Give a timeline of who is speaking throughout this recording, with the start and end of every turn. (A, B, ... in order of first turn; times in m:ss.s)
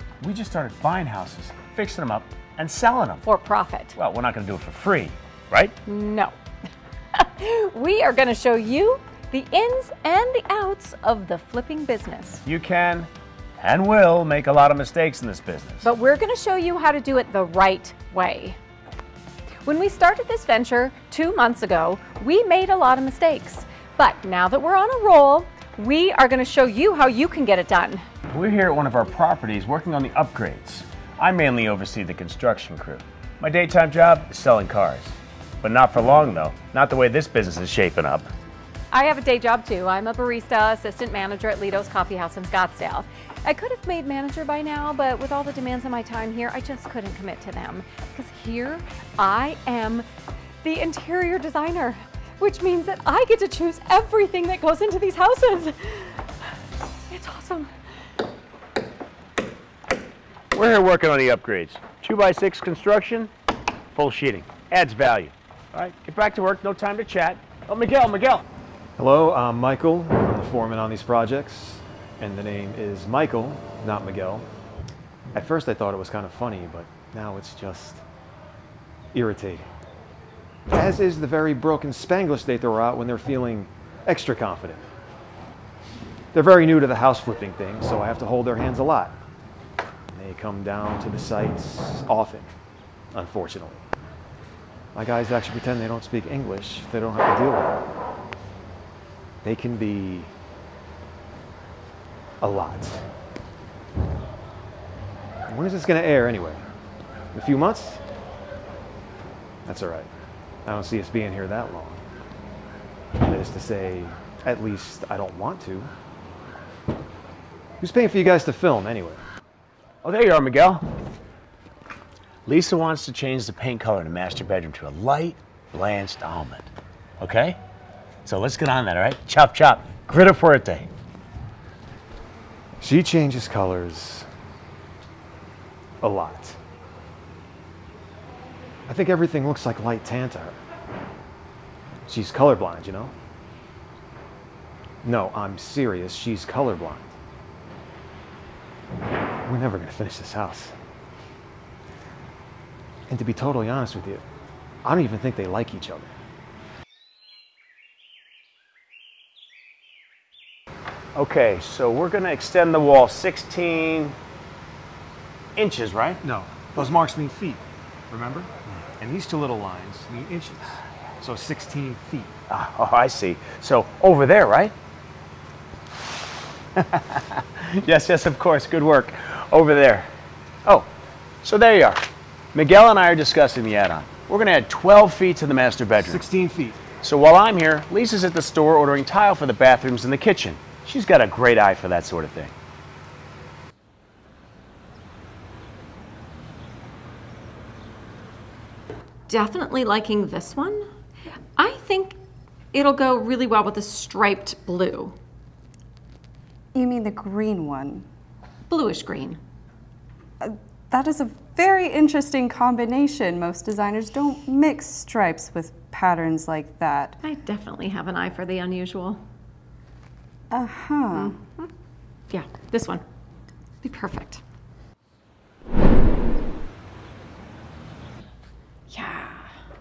0:00.2-0:03.2 A
0:03.2-0:04.0 B
0:04.0-0:05.7 A
0:05.8-0:06.3 B
0:07.2-0:12.4 B
0:12.4-0:15.9 A
0:15.8-0:18.6 B
0:19.6-0:28.0 B
0:28.3-0:38.3 A
0:38.9-0:50.0 B
0:50.6-0:56.3 B
0:57.1-0:57.7 B
1:00.5-1:03.3 A
1:04.0-1:08.4 A
1:09.0-1:14.5 C
1:15.3-1:18.0 C
1:19.1-1:19.6 C
1:20.7-1:24.8 C
1:26.3-1:29.2 C
1:30.1-1:32.5 C
1:33.1-1:33.9 C
1:34.9-1:37.8 C
1:39.4-1:40.3 C
1:42.4-1:43.0 C
1:45.5-1:46.6 C
1:47.3-1:48.0 C
1:49.7-1:50.1 C
1:50.6-1:52.0 C
1:53.2-1:55.9 C
1:57.8-1:59.2 C
2:00.0-2:00.8 A
2:02.5-2:07.6 A
2:08.2-2:10.9 A
2:12.8-2:14.3 C
2:16.0-2:16.6 C
2:18.9-2:20.6 C
2:22.1-2:23.1 C
2:25.0-2:27.2 C
2:29.4-2:30.7 C
2:33.1-2:34.2 C
2:34.8-2:36.2 C
2:41.2-2:44.2 A
2:45.6-2:46.2 A
2:46.2-2:52.3 C
2:52.5-2:54.8 A
2:56.8-3:00.1 A
3:01.4-3:06.2 A
3:06.0-3:06.8 C
3:07.0-3:12.5 A
3:19.3-3:20.9 B
3:21.6-3:22.2 B
3:22.7-3:25.2 B
3:26.7-3:28.1 D
3:28.7-3:29.4 B
3:30.4-3:37.2 D
3:37.2-3:39.2 B
3:40.5-3:41.4 D
3:41.1-3:41.7 B
3:42.3-3:43.0 B
3:43.8-3:44.4 B
3:48.9-3:49.5 B